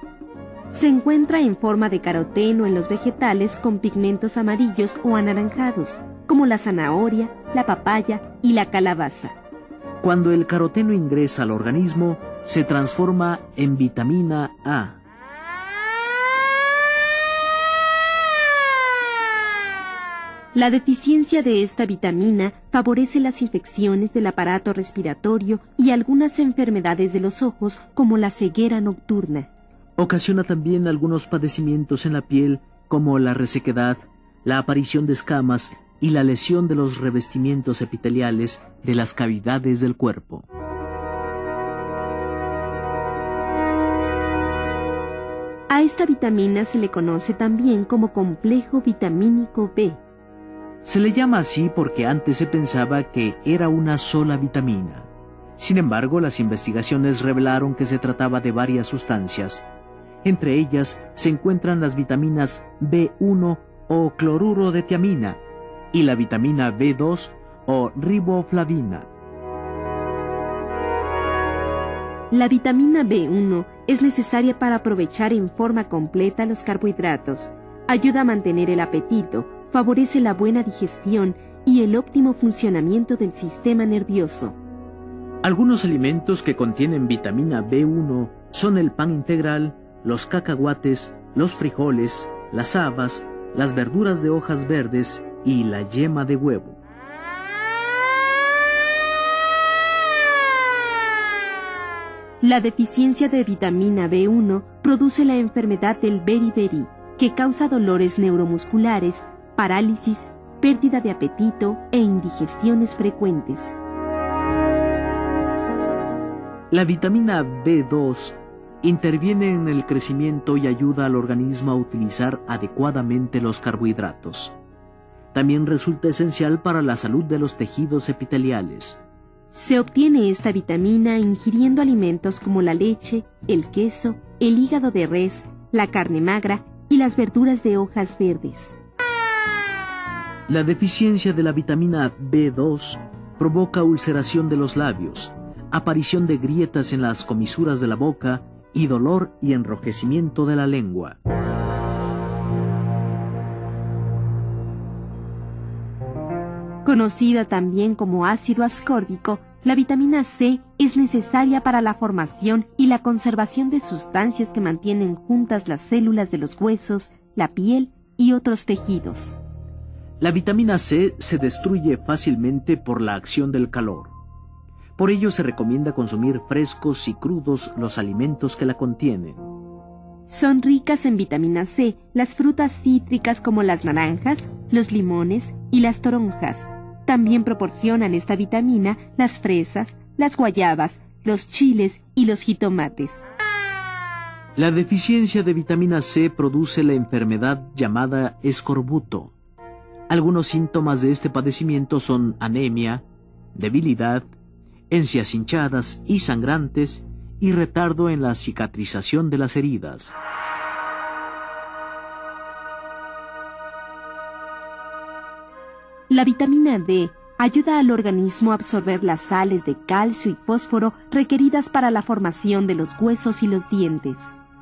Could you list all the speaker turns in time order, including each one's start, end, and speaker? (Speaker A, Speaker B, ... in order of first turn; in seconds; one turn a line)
Speaker A: 0.7-9.4
Speaker B: 10.0-15.0
Speaker A: 20.5-29.5
Speaker B: 30.0-40.5
Speaker A: 45.7-50.0
Speaker B: 50.9-59.7
Speaker B: 60.2-65.4
Speaker B: 65.9-69.1
Speaker A: 72.3-84.6
Speaker B: 85.4-96.8
Speaker A: 102.4-113.8
Speaker B: 116.7-124.5
Speaker B: 125.3-129.0
Speaker A: 129.5-138.8
Speaker B: 140.5-151.2
Speaker A: 156.8-169.4
Speaker B: 170.2-174.1
Speaker B: 175.0-179.4
Speaker A: 180.3-193.3
Speaker B: 194.6-199.3
Speaker B: 200.1-203.0
Speaker B: 203.6-204.2
Speaker B: 204.9-210.2
Speaker A: 216.1-224.3